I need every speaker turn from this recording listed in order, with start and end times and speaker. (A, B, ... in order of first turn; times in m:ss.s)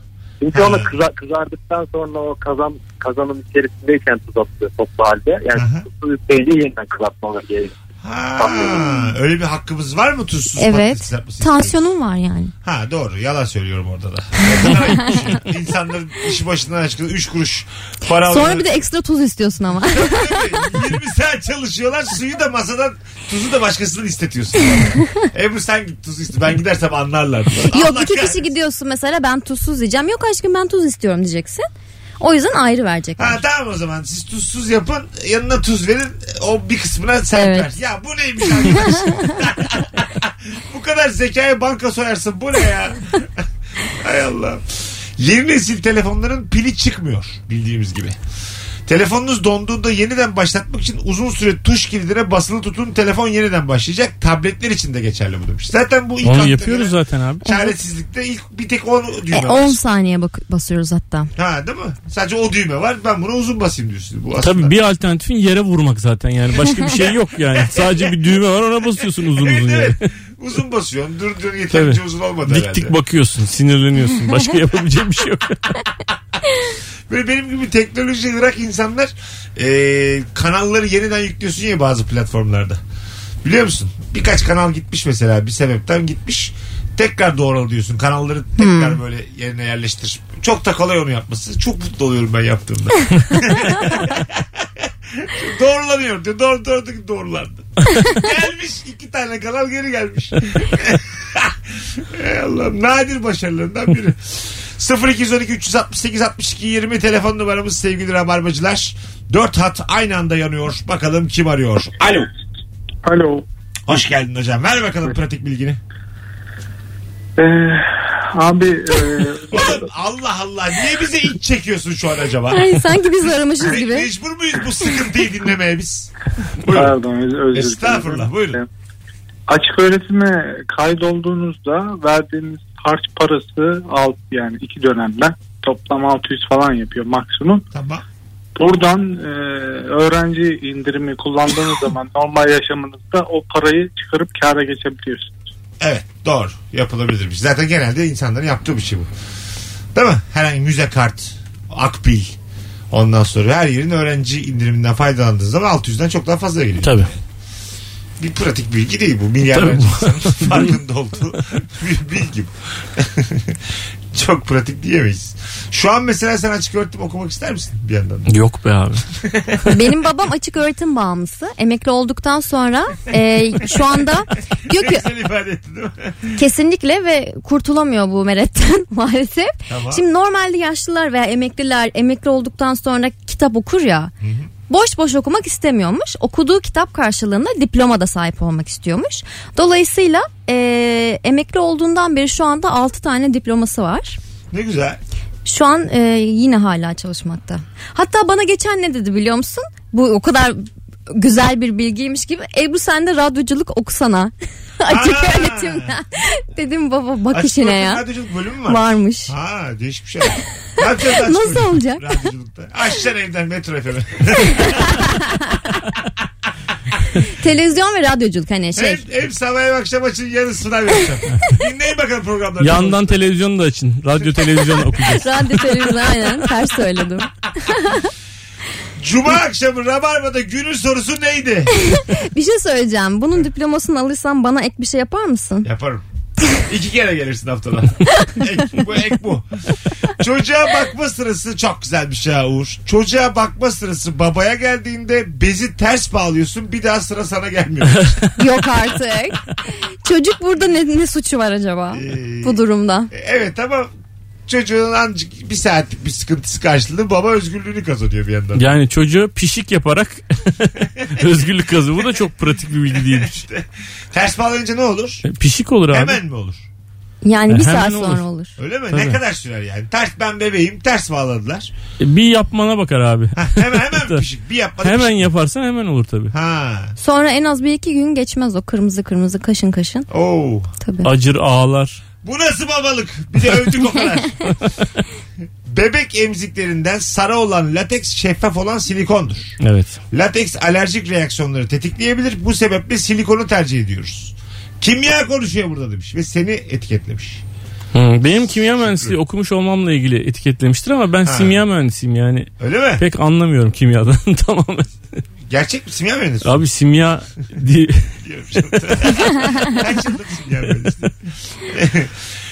0:00.4-0:07.7 A
0:00.5-0:00.9 B
0:05.5-0:05.8 B
0:08.0-0:11.8 B
0:08.4-0:08.9 A
0:10.6-0:12.5 C
0:12.6-0:18.6 B
0:14.7-0:15.1 C
0:18.2-0:20.7 C
0:19.9-0:28.5 B
0:27.7-0:31.6 C
0:32.2-0:33.4 C
0:33.2-0:48.2 B
0:37.3-0:37.7 C
0:38.4-0:39.3 C
0:48.9-0:59.8 B
0:56.2-0:57.4 D
0:57.4-0:57.7 C
0:59.3-1:01.3 C
1:01.4-1:04.7 B
1:04.4-1:10.1 D
1:06.8-1:08.2 B
1:09.0-1:12.9 B
1:11.7-1:15.8 D
1:17.1-1:22.8 B
1:23.4-1:52.3 B
1:28.6-1:29.0 C
1:53.0-1:53.4 E
1:53.9-1:55.8 B
1:57.4-1:59.9 E
1:59.5-2:02.9 B
2:02.5-2:04.1 C
2:03.6-2:06.1 B
2:06.6-2:06.9 B
2:06.7-2:08.7 E
2:07.5-2:08.6 B
2:09.5-2:17.6 E
2:17.7-2:18.0 B
2:18.6-2:25.4 E
2:25.8-2:29.1 B
2:29.9-2:32.4 B
2:32.9-2:37.2 B
2:36.8-2:37.1 D
2:38.2-2:43.6 B
2:39.5-2:40.7 D
2:44.1-2:48.3 B
2:48.3-2:49.0 D
2:49.2-2:49.6 B
2:49.7-2:55.1 C
2:54.7-2:56.4 B
2:56.4-3:04.1 C
2:59.7-3:00.0 B
3:04.2-3:04.5 B
3:04.7-3:14.2 C
3:14.5-3:15.0 B
3:15.4-3:28.0 C
3:24.9-3:25.9 B
3:27.3-3:35.2 B
3:28.7-3:29.3 C
3:31.0-3:32.3 C
3:34.5-3:35.7 C
3:37.2-3:39.0 C
3:38.7-3:43.2 B
3:42.6-3:45.6 D
3:45.0-3:48.1 C
3:49.0-3:51.7 B
3:51.7-3:55.7 C
3:55.6-4:08.2 B
4:07.9-4:08.4 D
4:08.4-4:13.1 C
4:11.9-4:12.6 B
4:13.1-4:13.9 B
4:14.5-4:18.7 B
4:18.5-4:23.4 D
4:22.9-4:25.2 B
4:25.2-4:26.2 D
4:25.9-4:26.6 B
4:27.2-4:28.6 C
4:27.5-4:28.2 D
4:28.6-4:31.7 B
4:28.9-4:29.2 D
4:32.0-4:34.2 D
4:33.4-4:35.3 B
4:34.8-4:36.3 D
4:36.3-4:37.0 B
4:37.0-4:40.1 C
4:40.1-4:40.7 B
4:40.8-4:41.1 C
4:41.0-4:42.0 D
4:42.2-4:44.6 B
4:45.6-4:49.6 B
4:49.6-4:50.0 D
4:50.1-4:57.4 B
4:57.9-5:04.9 D
4:58.6-4:59.2 B
5:01.2-5:01.6 B
5:02.6-5:03.0 B
5:05.5-5:06.6 B
5:06.4-5:08.1 D
5:08.2-5:12.1 B
5:08.7-5:09.7 D